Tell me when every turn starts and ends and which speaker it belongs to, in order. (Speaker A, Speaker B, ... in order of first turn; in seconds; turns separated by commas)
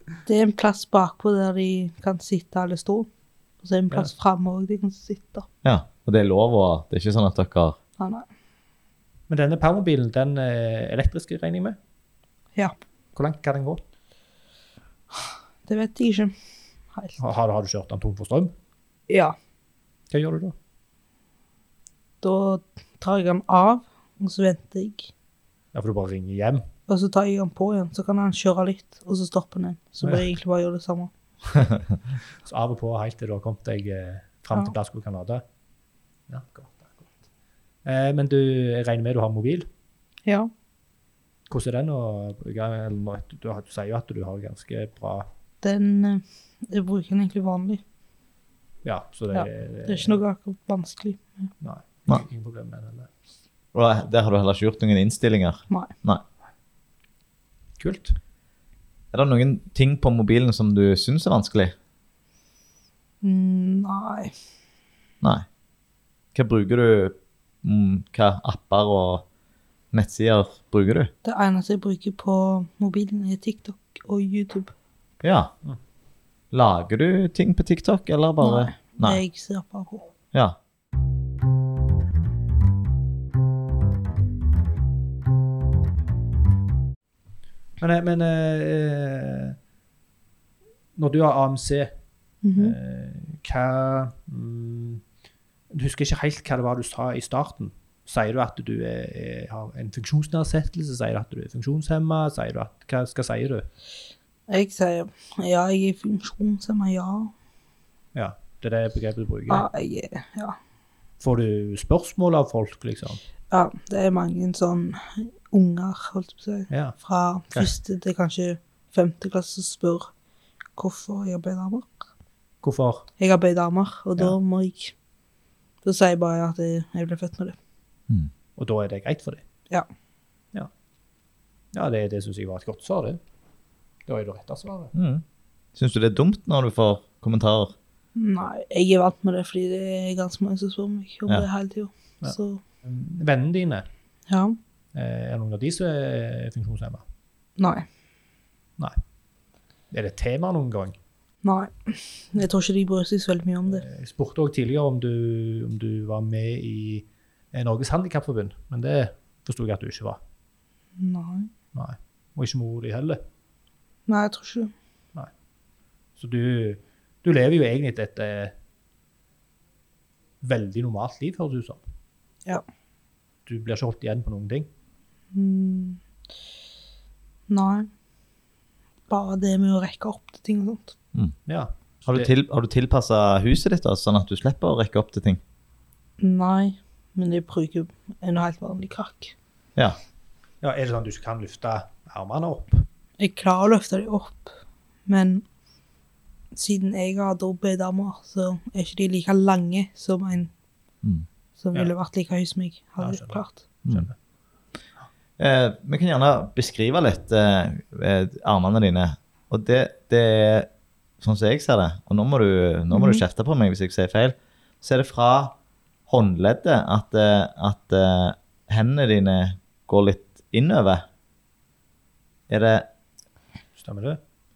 Speaker A: 0.3-3.1, Speaker A: 3.6-5.5, Speaker B: 5.6-7.8, Speaker A: 8.0-8.3, Speaker C: 9.3-11.8, Speaker C: 13.2-13.8, Speaker A: 15.2-16.3, Speaker C: 17.2-18.5, Speaker A: 19.1-19.4, Speaker C: 20.1-20.6, Speaker A: 22.2-25.1, Speaker C: 25.7-26.6, Speaker A: 26.9-31.1, Speaker C: 32.4-35.4, Speaker C: 36.3-37.1, Speaker C: 37.9-39.7, Speaker A: 40.3-40.5, Speaker C: 41.5-45.3, Speaker A: 45.6-47.8, Speaker C: 48.8-50.2, Speaker A: 49.3-51.5, Speaker C: 51.6-53.1, Speaker B: 53.7-56.2, Speaker C: 57.8-58.2, Speaker B: 59.1-61.8, Speaker A: 63.2-64.4, Speaker B: 66.3-69.2, Speaker B: 69.9-71.1, Speaker A: 71.2-74.7, Speaker B: 75.2-75.5, Speaker B: 76.5-79.2, Speaker A: 78.4-80.1, Speaker C: 87.8-89.6, Speaker C: 91.0-91.9, Speaker A: 92.4-92.8, Speaker C: 92.6-95.0, Speaker C: 95.7-103.7, Speaker A: 104.5-107.3, Speaker C: 108.2-109.7, Speaker A: 109.5-110.6, Speaker C: 111.2-113.2, Speaker A: 113.5-120.1, Speaker C: 116.7-117.0, Speaker A: 120.8-121.9, Speaker C: 122.6-123.1, Speaker A: 123.2-125.0, Speaker A: 125.8-127.6, Speaker C: 128.6-129.4, Speaker C: 131.7-133.2, Speaker C: 134.1-134.9, Speaker B: 134.9-135.2, Speaker B: 135.8-137.8, Speaker A: 138.2-142.6, Speaker C: 142.2-143.9, Speaker A: 144.3-144.6, Speaker C: 144.9-147.0, Speaker A: 147.6-147.9, Speaker C: 149.9-151.0, Speaker A: 151.4-153.8, Speaker C: 153.7-160.2, Speaker A: 161.0-161.5, Speaker C: 161.7-163.2, Speaker A: 164.1-164.7, Speaker C: 166.2-168.5, Speaker C: 170.4-171.8, Speaker C: 173.5-174.7, Speaker A: 175.3-176.0, Speaker A: 177.5-177.9, Speaker A: 179.1-180.9, Speaker C: 181.5-182.3, Speaker B: 182.1-185.4, Speaker A: 186.2-189.3, Speaker C: 190.6-192.9, Speaker A: 193.2-194.5, Speaker A: 195.1-195.4, Speaker A: 196.5-200.5, Speaker A: 201.6-203.6, Speaker C: 203.0-204.1, Speaker B: 205.4-210.7, Speaker B: 211.2-215.6, Speaker A: 212.9-213.2, Speaker B: 216.1-221.1, Speaker B: 222.5-222.9, Speaker C: 223.8-224.2